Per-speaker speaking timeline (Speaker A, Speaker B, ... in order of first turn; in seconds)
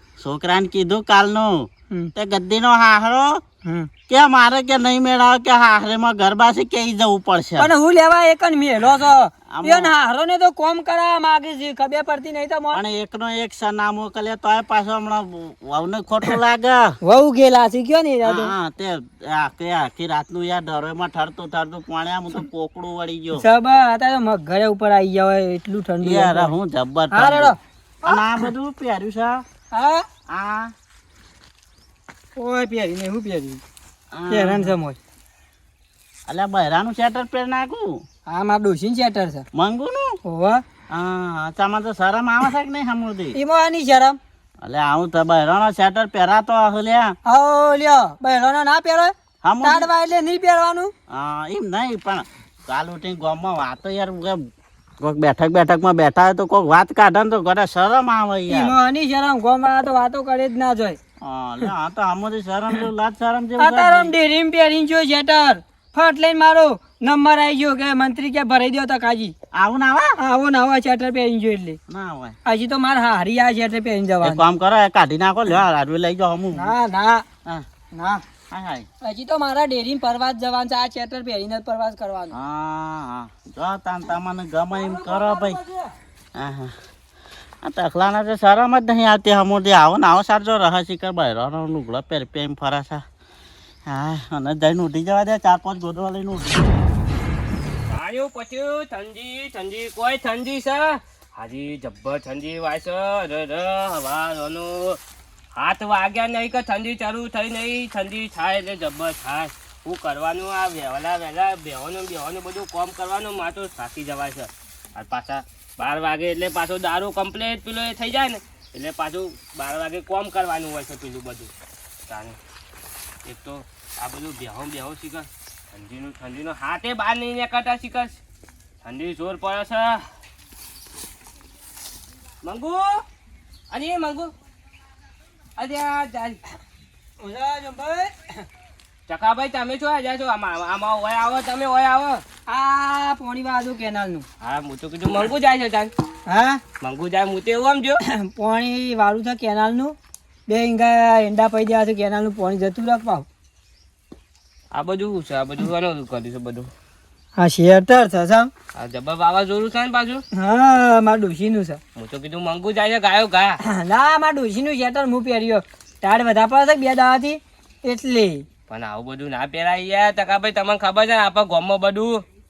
Speaker A: 0.2-3.4, 4.1-7.7, 9.5-9.9, 12.7-16.9, 18.2-23.4, 26.0-29.4, 30.3-30.7, 34.1-34.7, 36.3-38.0, 39.5-40.1, 40.9-43.4, 44.6-47.1, 49.4-49.9, 51.1-54.4, 55.0-58.8, 61.2-64.1, 69.5-70.1, 71.9-72.3, 74.2-76.7, 78.5-78.8, 82.3-85.6, 86.3-86.7, 87.6-93.0, 93.9-96.8
Speaker B: 7.6-12.8, 17.0-18.5, 23.4-26.5, 27.1-28.3, 29.7-30.0, 32.4-33.6, 34.3-35.0, 38.3-39.4, 40.2-40.6, 43.3-44.2, 47.2-49.1, 49.6-50.9, 58.5-61.0, 63.6-69.3, 70.2-71.8, 72.5-74.4, 76.5-77.2, 77.9-78.2, 79.0-82.3, 84.7-85.9, 137.2-138.4, 142.5-144.2, 146.3-146.6, 148.2-149.9, 150.5-153.2, 157.3-158.5, 160.3-161.8, 163.6-168.4
Speaker C: 97.9-105.0, 105.5-121.5, 122.1-122.3, 123.2-128.2, 128.8-130.0, 132.4-133.0, 133.7-134.3, 135.6-136.4, 139.1-142.2, 144.4-145.9, 146.8-148.0, 154.7-156.7, 158.8-160.2, 161.9-163.6, 168.7-172.2